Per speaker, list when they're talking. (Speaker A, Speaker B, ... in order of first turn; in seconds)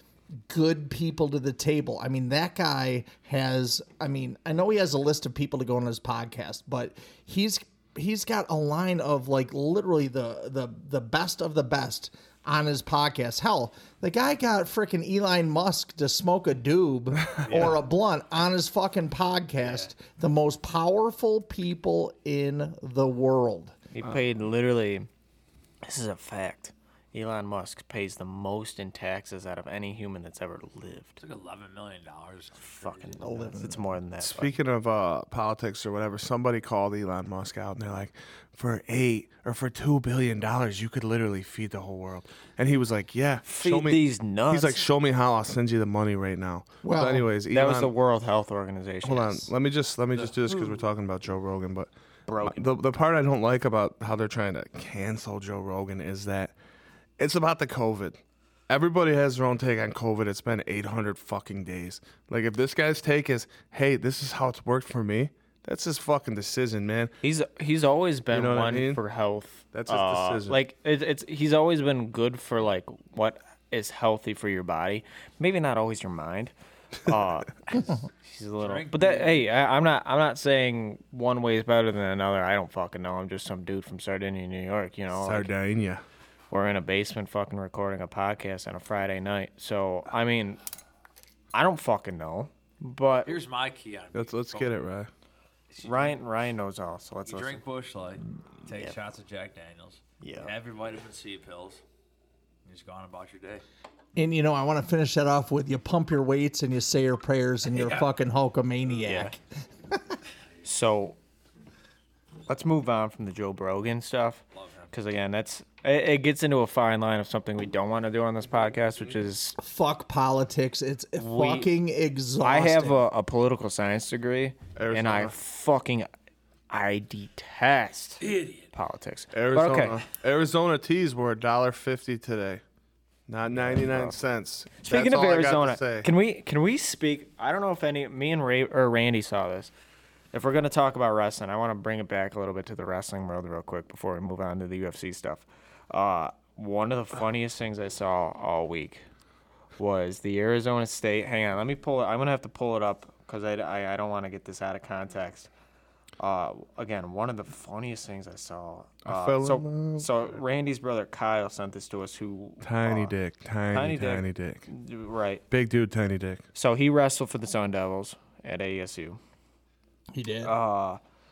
Speaker A: 0.5-23.8, 33.2-33.9, 46.8-47.3, 104.2-109.4, 109.9-110.2, 119.6-123.0, 170.1-170.5
Speaker B: 17.3-17.7, 34.2-47.9, 49.0-51.9, 52.4-56.5, 57.2-67.1, 68.3-69.0, 69.7-70.6, 85.2-86.0, 94.1-95.1, 124.8-125.3, 129.3-132.6, 133.3-136.1, 159.1-160.1, 162.6-164.7, 165.5-166.4
Speaker C: 17.5-17.8, 19.6-19.9, 31.2-33.4, 50.2-50.5, 78.6-79.5, 93.3-94.8, 95.7-96.2, 97.3-101.8, 102.7-103.6, 107.7-108.1, 114.5-114.9, 128.2-128.7
Speaker D: 23.9-25.1, 25.8-31.2, 32.6-34.5, 43.5-44.8, 47.5-49.5, 52.3-52.6, 67.2-76.5, 77.0-85.5, 86.5-90.6, 91.5-93.3, 95.8-97.6, 100.2-100.5, 109.0-109.3, 110.6-111.2, 112.5-119.6, 121.2-121.7, 122.4-126.1, 126.7-130.0, 133.5-134.2, 134.8-139.7, 140.3-149.0, 149.8-155.5, 156.2-163.1, 163.7-165.4, 166.6-169.2, 170.4-171.0